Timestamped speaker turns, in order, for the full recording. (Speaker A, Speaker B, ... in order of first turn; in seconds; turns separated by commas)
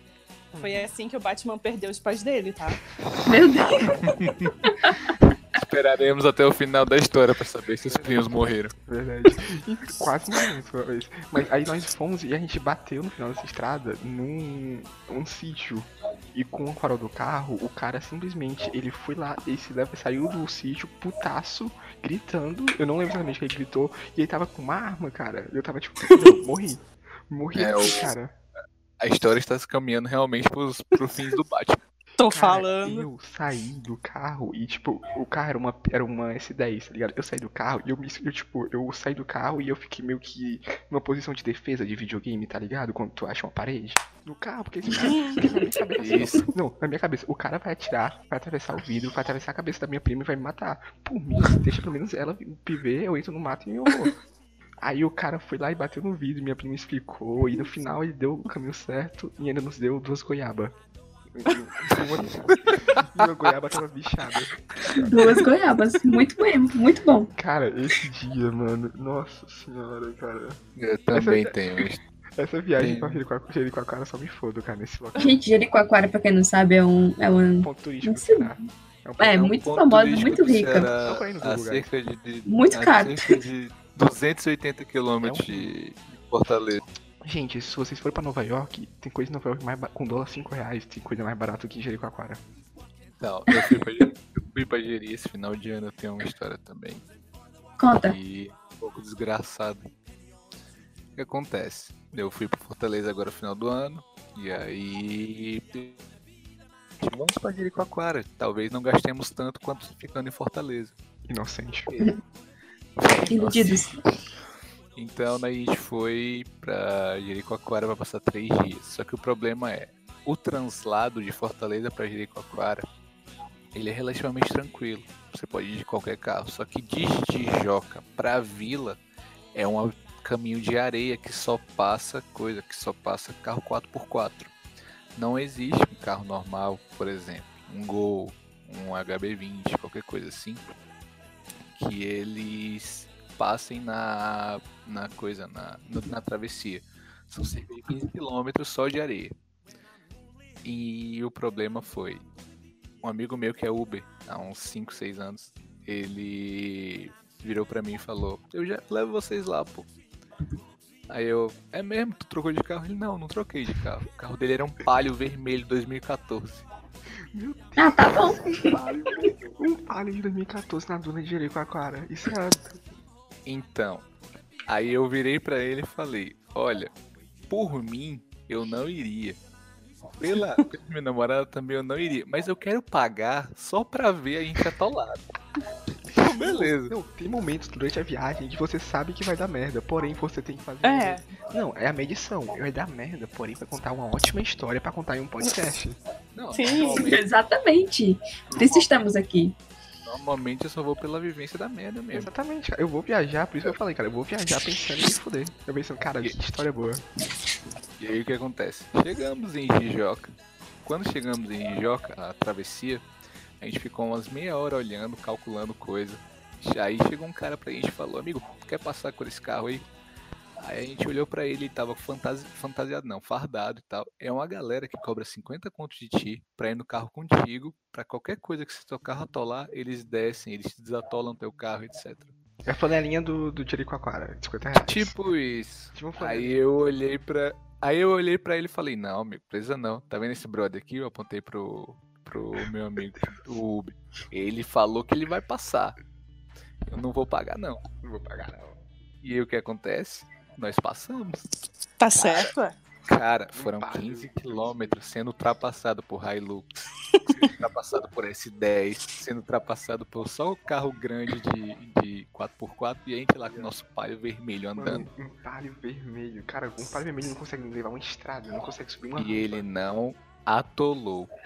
Speaker A: 0.5-2.8, Speaker B: 3.2-5.1, Speaker C: 4.1-4.5, Speaker C: 5.6-8.7, Speaker D: 7.9-28.3, Speaker C: 27.6-28.1, Speaker C: 29.0-31.8, Speaker A: 32.2-33.0, Speaker D: 32.3-54.1, Speaker A: 45.0-45.4, Speaker C: 46.0-46.5, Speaker D: 54.8-60.8, Speaker D: 61.3-65.4, Speaker C: 62.6-63.0, Speaker B: 65.0-67.3, Speaker D: 67.4-70.6, Speaker C: 70.8-72.0, Speaker D: 71.1-71.6, Speaker D: 72.4-75.4, Speaker C: 72.8-73.2, Speaker B: 75.2-78.6, Speaker D: 77.6-79.6, Speaker B: 79.2-80.9, Speaker C: 79.5-86.8, Speaker D: 80.3-81.9, Speaker B: 82.5-83.4, Speaker D: 85.2-85.7, Speaker D: 87.2-92.4, Speaker C: 93.2-97.1, Speaker B: 97.8-98.2, Speaker C: 97.9-99.9, Speaker C: 101.2-106.0, Speaker C: 107.0-111.0, Speaker D: 111.3-111.9, Speaker C: 111.9-112.2, Speaker C: 113.1-113.9, Speaker B: 113.3-114.0, Speaker C: 115.0-122.9, Speaker C: 123.7-129.0, Speaker C: 129.5-134.5, Speaker C: 135.2-140.6, Speaker C: 141.7-149.3, Speaker C: 150.6-152.2, Speaker C: 153.0-159.9, Speaker C: 161.1-166.7, Speaker D: 167.3-172.8, Speaker B: 167.8-168.7, Speaker C: 173.5-174.1, Speaker C: 174.7-176.9, Speaker C: 177.5-179.4, Speaker C: 180.2-185.2, Speaker C: 186.2-186.9, Speaker D: 186.4-196.0, Speaker A: 190.8-191.2, Speaker C: 196.3-197.2, Speaker A: 196.5-197.1, Speaker B: 197.0-199.6, Speaker C: 198.6-198.9, Speaker C: 200.1-202.3, Speaker D: 202.1-207.0, Speaker C: 208.0-210.3, Speaker C: 210.8-213.1, Speaker C: 213.6-219.9, Speaker C: 220.6-232.3, Speaker D: 232.7-235.2, Speaker C: 234.8-246.0, Speaker D: 235.9-236.6, Speaker C: 246.9-247.8, Speaker D: 248.0-248.8, Speaker C: 249.2-251.5, Speaker A: 252.0-252.8, Speaker C: 253.1-265.1, Speaker D: 253.5-255.0, Speaker D: 264.8-269.6, Speaker C: 269.2-271.3